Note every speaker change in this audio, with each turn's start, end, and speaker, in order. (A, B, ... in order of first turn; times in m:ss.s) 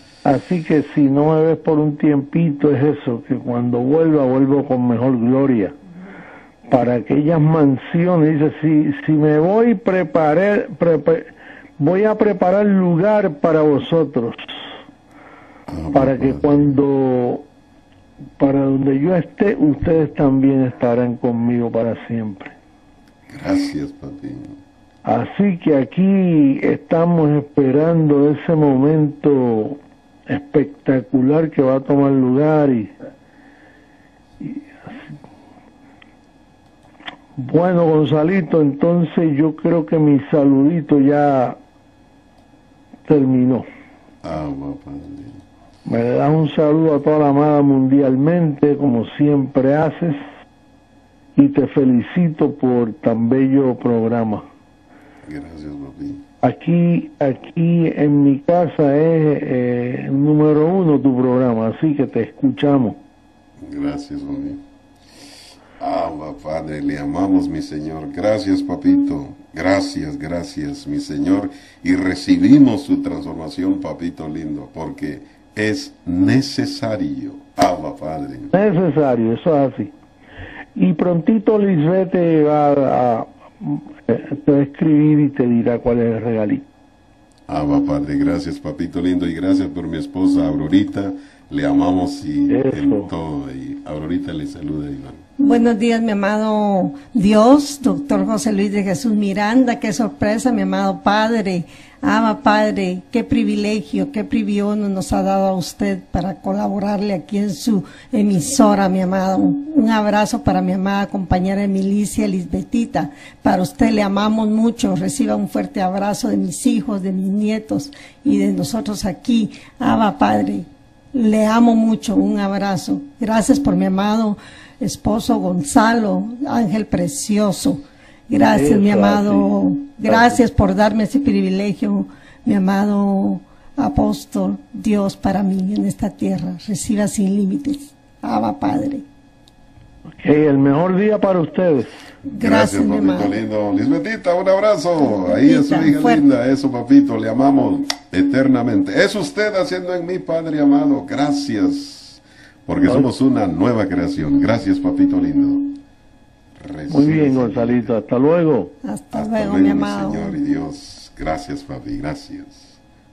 0:00.2-0:05.8 A
0:06.7-0:14.6 A
0:15.7-0:16.7 B
0:15.9-0:17.4 A
0:18.4-0:22.6 A
0:23.3-0:24.6 B
0:25.0-0:32.9 A
0:37.4-0:41.6 A
0:43.1-0:43.6 A
0:44.2-0:45.4 B
0:45.9-0:50.2 A
0:51.4-0:54.4 A
0:55.2-0:56.2 B
0:56.4-1:03.0 A
1:03.6-1:04.6 B
1:05.8-1:18.5 B
1:18.5-1:19.9 A
1:20.8-1:26.6 A
1:27.5-1:35.2 B
1:32.5-1:33.1 A
1:35.4-2:19.0 C
2:08.5-2:09.5 A
2:10.0-2:10.4 A
2:20.2-2:21.9 A
2:22.2-2:35.7 B
2:22.3-2:23.4 C
2:25.0-2:26.3 C
2:36.6-2:38.0 B
2:36.9-2:38.7 A
2:38.8-2:40.4 C
2:39.1-2:42.8 B